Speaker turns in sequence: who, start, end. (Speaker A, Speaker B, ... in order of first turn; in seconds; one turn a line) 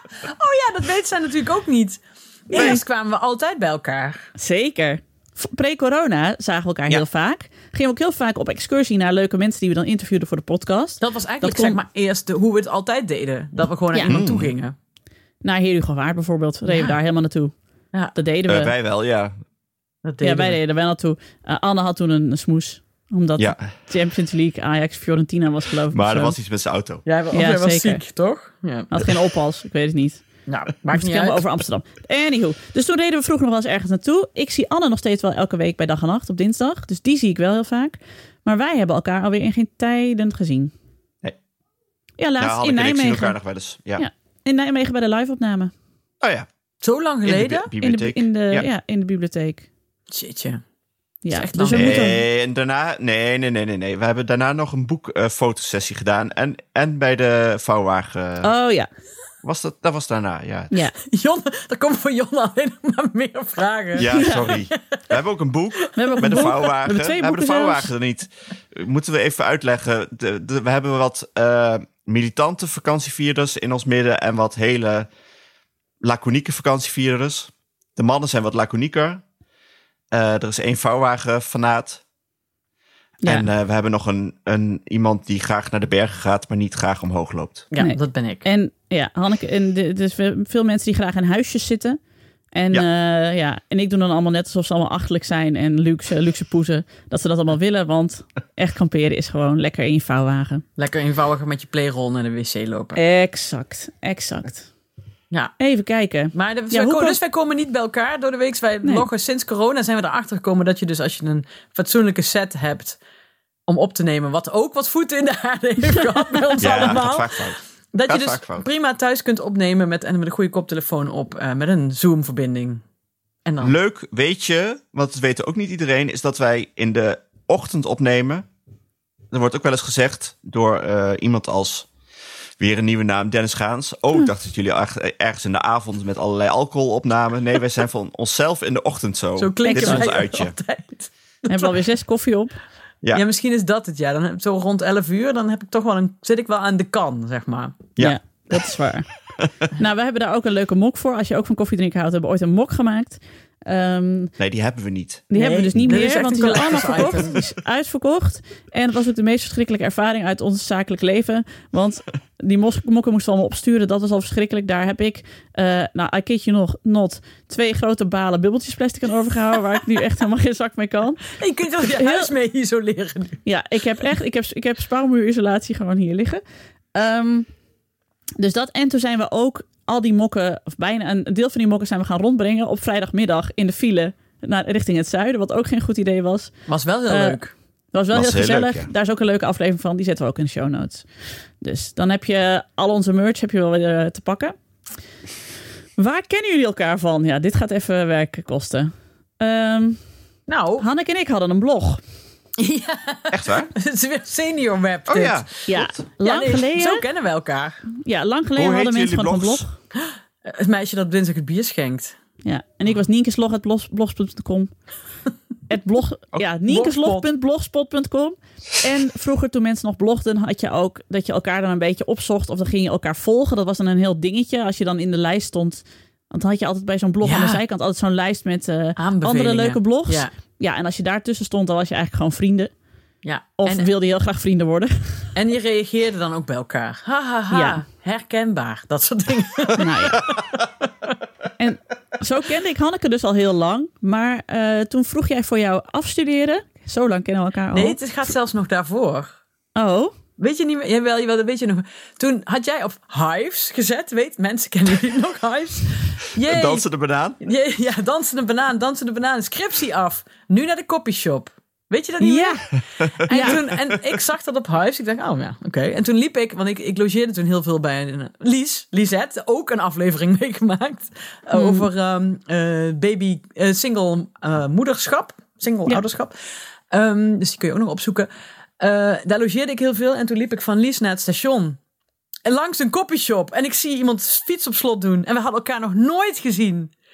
Speaker A: 0.2-4.3
Speaker B: 2.5-2.8
Speaker B: 4.4-11.8
Speaker A: 11.0-14.7
Speaker C: 14.1-14.5
Speaker B: 15.4-17.6
Speaker A: 16.6-17.0
Speaker B: 18.1-18.7
Speaker C: 18.5-19.3
Speaker A: 20.0-20.6
Speaker B: 20.2-26.3
Speaker C: 23.4-23.7
Speaker C: 25.9-27.0
Speaker A: 27.0-28.9
Speaker B: 27.3-28.0
Speaker B: 28.9-30.2
Speaker A: 30.5-31.4
Speaker B: 30.9-40.7
Speaker B: 42.2-43.4
Speaker C: 42.4-44.0
Speaker B: 44.0-45.7
Speaker C: 46.2-46.5
Speaker A: 46.8-47.7
Speaker C: 47.2-48.7
Speaker B: 47.8-49.7
Speaker A: 50.1-50.6
Speaker B: 51.2-52.2
Speaker A: 51.3-52.1
Speaker C: 51.7-58.5
Speaker B: 58.4-58.9
Speaker C: 59.4-60.7
Speaker A: 61.1-64.7
Speaker C: 64.0-75.1
Speaker B: 64.1-64.5
Speaker B: 65.9-67.9
Speaker A: 66.2-66.6
Speaker C: 76.0-79.2
Speaker C: 80.1-82.0
Speaker B: 83.2-83.5
Speaker C: 83.2-87.7
Speaker A: 87.7-88.4
Speaker B: 87.8-92.0
Speaker B: 92.5-100.6
Speaker A: 100.8-103.0
Speaker B: 103.0-104.7
Speaker B: 105.6-107.2
Speaker A: 106.3-113.0
Speaker A: 113.7-122.8
Speaker C: 116.6-118.6
Speaker A: 123.5-123.8
Speaker C: 123.6-128.4
Speaker C: 129.3-131.9
Speaker C: 132.6-140.5
Speaker A: 139.4-141.7
Speaker B: 139.7-140.1
Speaker B: 141.5-142.6
Speaker A: 143.1-147.8
Speaker B: 148.0-149.1
Speaker B: 149.7-154.3
Speaker C: 154.4-156.1
Speaker B: 155.3-172.3
Speaker A: 155.3-157.4
Speaker A: 171.3-173.4
Speaker B: 173.4-176.4
Speaker B: 176.9-177.5
Speaker B: 178.4-187.4
Speaker A: 186.7-187.5
Speaker B: 187.9-194.6
Speaker C: 188.1-188.9
Speaker B: 196.0-200.1
Speaker A: 200.5-200.8
Speaker B: 200.8-202.0
Speaker A: 202.6-207.8
Speaker C: 203.3-203.7
Speaker C: 205.1-206.0
Speaker B: 205.7-207.0
Speaker B: 208.0-209.7
Speaker C: 208.6-209.7
Speaker A: 210.4-212.2
Speaker B: 212.4-214.7
Speaker B: 215.7-232.7
Speaker A: 216.7-217.2
Speaker A: 227.2-227.6
Speaker A: 229.0-230.3
Speaker A: 233.2-233.9
Speaker B: 233.6-235.3
Speaker A: 235.3-240.3
Speaker B: 237.5-237.8
Speaker B: 239.8-240.2
Speaker B: 241.6-248.0
Speaker A: 247.7-249.3
Speaker B: 249.8-250.1
Speaker A: 250.4-256.9
Speaker C: 256.4-257.4
Speaker A: 257.4-278.3
Speaker B: 262.2-262.6
Speaker B: 263.3-263.6
Speaker C: 263.4-263.8
Speaker B: 271.5-271.9
Speaker A: 278.8-281.8
Speaker A: 282.4-286.9